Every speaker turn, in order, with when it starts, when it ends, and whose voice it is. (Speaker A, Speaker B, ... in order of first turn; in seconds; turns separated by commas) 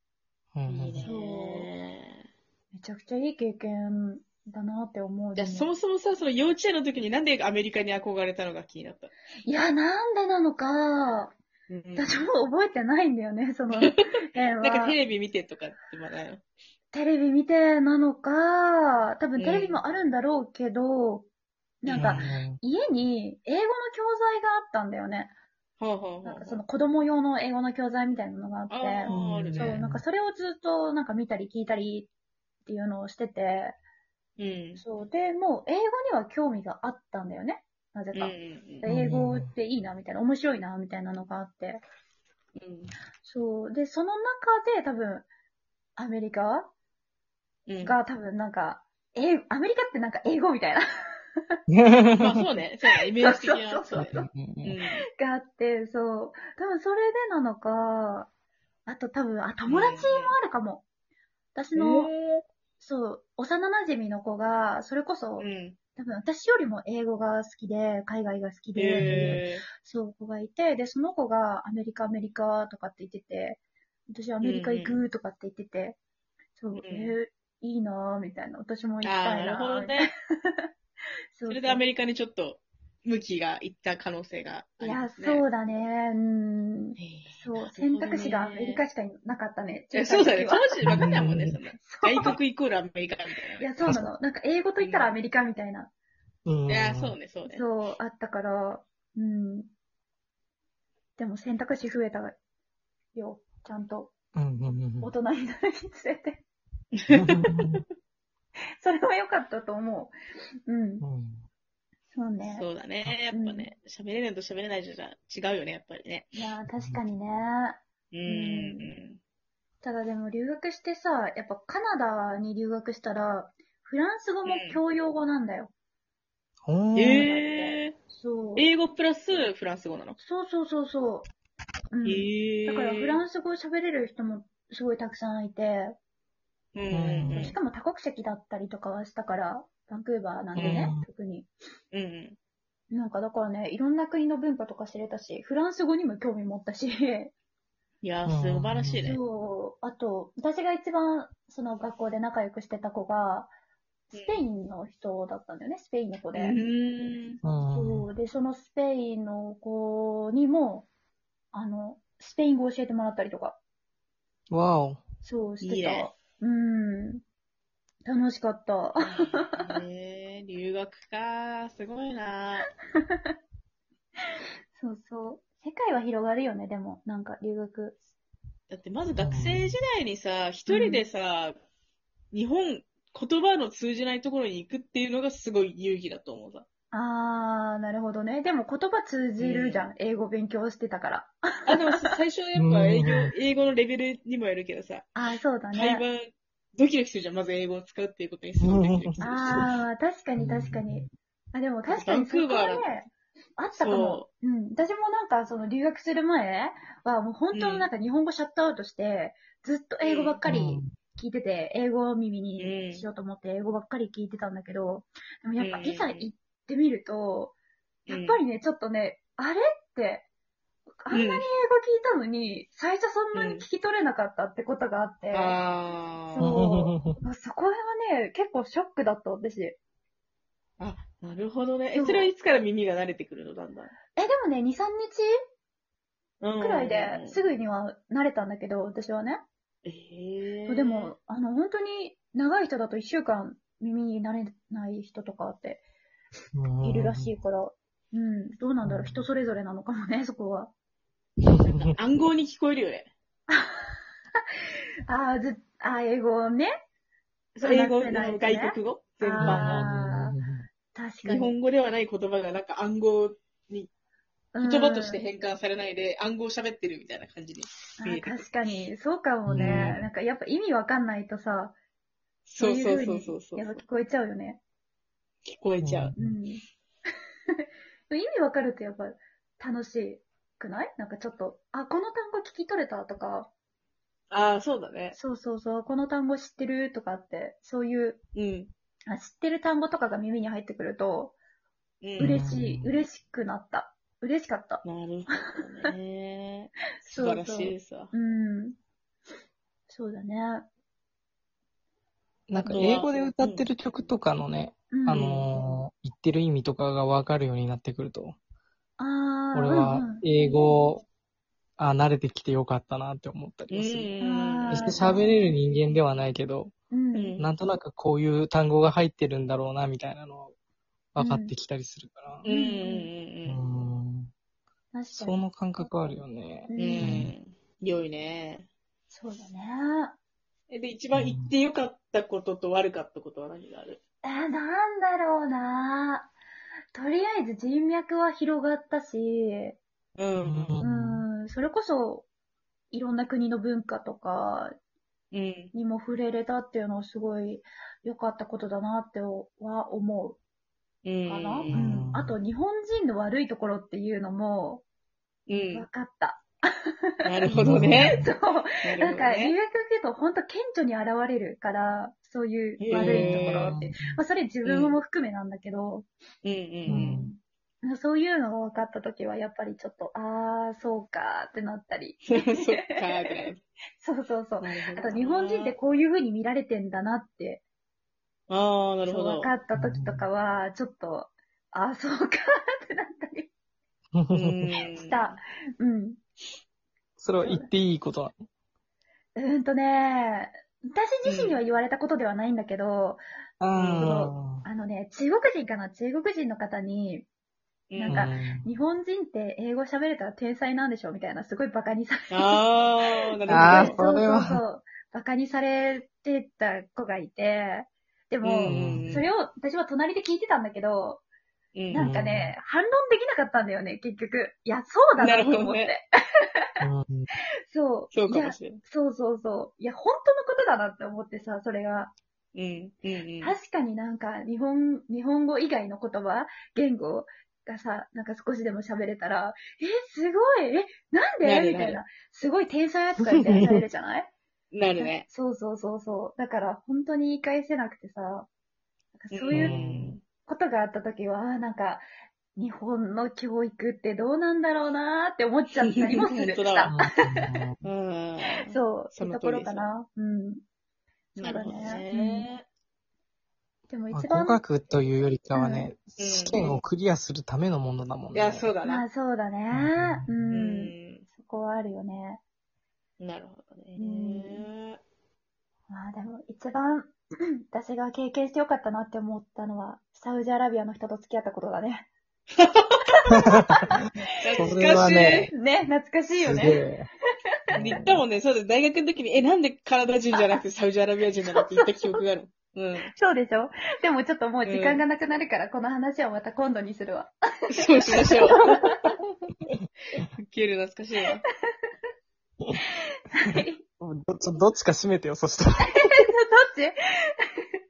Speaker A: 0.5-1.1, Speaker B: 0.7-2.2, Speaker C: 1.0-1.7, Speaker C: 2.7-5.7, Speaker B: 5.4-9.1, Speaker C: 9.5-11.3, Speaker B: 11.7-12.2, Speaker C: 12.0-15.0, Speaker B: 13.7-14.0, Speaker B: 14.6-16.4, Speaker C: 16.9-21.3, Speaker B: 19.4-19.8, Speaker C: 21.8-25.3, Speaker B: 21.9-22.4, Speaker A: 21.9-22.6, Speaker B: 25.8-26.6, Speaker C: 26.2-32.1, Speaker B: 28.7-29.8, Speaker A: 29.1-30.0, Speaker C: 32.7-33.8, Speaker B: 34.4-34.8, Speaker C: 34.8-41.8, Speaker B: 38.1-38.9, Speaker A: 38.9-39.5, Speaker B: 42.6-43.0, Speaker C: 43.2-45.3, Speaker C: 46.0-46.7, Speaker B: 47.7-48.0, Speaker C: 47.8-50.8, Speaker A: 51.7-52.3, Speaker B: 52.2-55.0, Speaker C: 52.9-54.2, Speaker A: 54.0-54.8, Speaker C: 55.2-58.3, Speaker C: 58.9-60.9, Speaker B: 59.7-60.3, Speaker C: 61.5-62.1, Speaker B: 61.8-62.4, Speaker C: 62.8-76.0, Speaker B: 65.4-65.8, Speaker B: 68.8-69.7, Speaker A: 69.0-69.4, Speaker B: 74.4-75.0, Speaker C: 76.6-80.7, Speaker B: 76.8-77.2, Speaker B: 79.0-80.1, Speaker C: 81.3-81.8, Speaker B: 81.5-85.5, Speaker C: 84.8-90.8, Speaker B: 87.0-88.8, Speaker B: 89.9-93.7, Speaker A: 90.8-91.6, Speaker C: 91.8-92.4, Speaker C: 93.6-95.9, Speaker B: 94.8-95.1, Speaker A: 96.5-97.2, Speaker B: 96.7-97.7, Speaker C: 97.5-99.7, Speaker C: 101.2-102.4, Speaker C: 103.1-104.1, Speaker A: 104.3-105.1, Speaker C: 105.0-106.4, Speaker B: 107.0-107.8, Speaker A: 107.1-107.8, Speaker C: 108.8-110.2, Speaker C: 110.7-111.0, Speaker A: 111.0-111.5, Speaker C: 112.1-112.7, Speaker B: 112.4-116.3, Speaker C: 113.3-113.7, Speaker C: 116.3-118.9, Speaker B: 118.1-119.2, Speaker C: 119.8-125.7, Speaker B: 124.5-124.8, Speaker A: 126.7-127.2, Speaker B: 127.0-128.0, Speaker C: 127.1-128.7, Speaker B: 128.6-130.2, Speaker C: 130.2-131.3, Speaker C: 131.9-135.9, Speaker B: 132.1-133.2, Speaker B: 136.8-137.6, Speaker A: 136.9-137.6, Speaker C: 137.3-141.5, Speaker B: 140.6-140.9, Speaker A: 140.6-141.1, Speaker B: 141.9-142.4, Speaker C: 142.9-147.3, Speaker B: 148.0-149.2, Speaker A: 148.2-149.2, Speaker C: 149.1-153.5, Speaker C: 154.1-156.6, Speaker B: 154.1-154.4, Speaker B: 156.3-157.4, Speaker A: 157.4-158.1, Speaker C: 157.7-160.9, Speaker C: 161.5-163.6, Speaker A: 164.5-165.0, Speaker C: 165.2-167.2, Speaker B: 165.6-166.1, Speaker C: 168.1-169.4, Speaker B: 169.0-172.7, Speaker C: 172.9-173.3, Speaker C: 174.8-178.0, Speaker B: 178.7-181.6, Speaker A: 179.2-179.7, Speaker C: 180.7-181.1, Speaker B: 182.3-186.7, Speaker C: 186.9-191.4, Speaker B: 189.4-189.9, Speaker B: 191.7-195.1, Speaker A: 192.6-193.3, Speaker C: 195.2-196.1, Speaker B: 195.7-199.7, Speaker A: 198.6-199.7, Speaker C: 199.2-217.6, Speaker A: 200.4-201.1, Speaker B: 201.9-202.9, Speaker B: 203.7-204.3, Speaker B: 207.5-207.9, Speaker B: 210.0-210.4, Speaker A: 210.4-210.9, Speaker B: 212.6-213.1, Speaker B: 215.6-216.3, Speaker B: 218.1-218.4, Speaker C: 218.1-220.3, Speaker C: 221.0-225.6, Speaker B: 221.1-221.4, Speaker B: 223.3-223.6, Speaker B: 225.3-226.6, Speaker C: 226.3-229.8, Speaker A: 226.4-227.2, Speaker B: 230.8-233.9, Speaker C: 231.9-232.3, Speaker C: 234.2-235.3, Speaker B: 236.4-237.4, Speaker C: 236.6-239.4, Speaker B: 239.8-241.1, Speaker C: 240.7-245.8, Speaker A: 246.6-247.3, Speaker C: 246.8-250.7, Speaker A: 248.8-249.2, Speaker B: 251.4-253.1, Speaker C: 253.5-254.0, Speaker C: 255.1-256.7, Speaker B: 257.6-259.9, Speaker C: 257.6-260.4, Speaker A: 259.4-260.7, Speaker C: 260.9-261.6, Speaker B: 261.2-263.9, Speaker C: 264.5-265.2, Speaker B: 264.6-268.4, Speaker C: 268.0-271.8, Speaker A: 269.5-270.0, Speaker B: 269.6-270.0, Speaker B: 272.5-273.8, Speaker C: 272.6-274.6, Speaker B: 275.5-276.1, Speaker A: 275.8-276.4, Speaker C: 276.2-276.6, Speaker C: 278.1-283.5, Speaker B: 284.3-285.2, Speaker C: 285.1-288.2, Speaker B: 288.4-288.7, Speaker C: 289.1-291.4, Speaker B: 292.0-292.4, Speaker A: 292.2-292.9, Speaker C: 292.2-294.8, Speaker B: 294.8-298.1, Speaker C: 297.0-298.8, Speaker C: 299.9-300.7, Speaker A: 302.5-308.4, Speaker B: 302.6-303.7, Speaker C: 304.9-305.4, Speaker B: 305.2-305.5, Speaker C: 309.0-310.2, Speaker A: 309.5-311.1, Speaker A: 311.8-314.1, Speaker B: 313.7-315.2, Speaker C: 314.2-315.5, Speaker A: 314.7-316.7, Speaker C: 316.9-317.4, Speaker B: 317.1-317.5, Speaker A: 317.4-320.5, Speaker A: 321.1-322.5, Speaker C: 321.2-321.5, Speaker B: 322.4-323.6, Speaker C: 322.5-323.1, Speaker A: 323.5-324.3, Speaker C: 324.9-325.4, Speaker A: 325.1-327.3, Speaker C: 326.7-327.2, Speaker B: 326.8-328.7, Speaker C: 329.1-330.2, Speaker B: 330.7-334.0, Speaker A: 331.1-331.5, Speaker C: 334.2-336.3, Speaker C: 336.9-339.8, Speaker B: 340.2-340.8, Speaker A: 340.4-341.2, Speaker C: 340.8-342.3, Speaker C: 342.9-344.7, Speaker B: 345.3-345.7, Speaker C: 345.7-350.4, Speaker B: 351.1-351.8, Speaker C: 351.3-354.8, Speaker A: 351.7-352.4, Speaker B: 355.5-355.9, Speaker C: 355.7-366.1, Speaker B: 357.2-358.2, Speaker A: 357.5-358.3, Speaker B: 358.8-359.5, Speaker B: 362.8-363.7, Speaker A: 362.9-364.2, Speaker B: 364.6-365.0, Speaker B: 366.4-367.3, Speaker A: 366.9-367.3, Speaker C: 366.9-377.6, Speaker B: 372.2-373.6, Speaker B: 374.6-375.8, Speaker B: 378.5-379.5, Speaker C: 379.1-383.5, Speaker A: 379.8-380.3, Speaker A: 384.2-384.5, Speaker B: 384.3-385.4, Speaker C: 384.9-386.2, Speaker A: 387.2-388.4, Speaker C: 387.4-387.7, Speaker C: 389.4-393.2, Speaker B: 391.2-391.6, Speaker A: 393.6-394.6, Speaker B: 393.8-394.2, Speaker C: 393.9-397.3, Speaker B: 397.9-398.3, Speaker C: 397.9-411.2, Speaker A: 398.1-398.7, Speaker B: 402.3-404.0, Speaker A: 403.5-404.6, Speaker B: 408.4-409.3, Speaker A: 408.7-409.3, Speaker B: 411.8-412.1, Speaker C: 411.9-416.1, Speaker A: 411.9-412.6, Speaker B: 415.2-415.9, Speaker A: 416.8-417.3, Speaker C: 417.7-422.1, Speaker B: 418.1-418.8, Speaker B: 422.6-423.6, Speaker C: 423.4-434.3, Speaker B: 431.4-432.0, Speaker B: 434.7-435.3, Speaker C: 435.0-438.5, Speaker C: 439.2-439.8, Speaker B: 439.3-440.2, Speaker A: 439.5-440.1, Speaker C: 440.4-442.0, Speaker C: 442.6-447.5, Speaker B: 445.8-446.9, Speaker A: 446.9-447.8, Speaker B: 447.8-449.9, Speaker C: 448.7-450.6, Speaker B: 451.4-452.6, Speaker C: 451.4-452.5, Speaker C: 453.9-454.6, Speaker A: 454.1-458.7, Speaker C: 455.5-455.9, Speaker B: 456.2-456.7, Speaker B: 458.3-459.0, Speaker C: 458.8-462.4, Speaker A: 459.7-460.5, Speaker B: 460.5-461.2, Speaker B: 463.2-465.0, Speaker C: 464.0-464.7, Speaker C: 465.9-467.2, Speaker C: 467.7-472.1, Speaker B: 472.6-473.0, Speaker C: 473.3-474.1, Speaker B: 474.4-475.5, Speaker A: 474.6-475.5, Speaker C: 475.5-476.9, Speaker A: 476.4-477.1, Speaker A: 477.7-478.2, Speaker B: 477.8-483.1, Speaker C: 480.3-480.6, Speaker C: 481.4-482.2, Speaker C: 483.1-489.0, Speaker B: 484.6-485.0, Speaker B: 487.7-489.2, Speaker B: 490.4-491.4, Speaker C: 493.3-493.8, Speaker A: 494.0-496.2, Speaker C: 495.8-497.7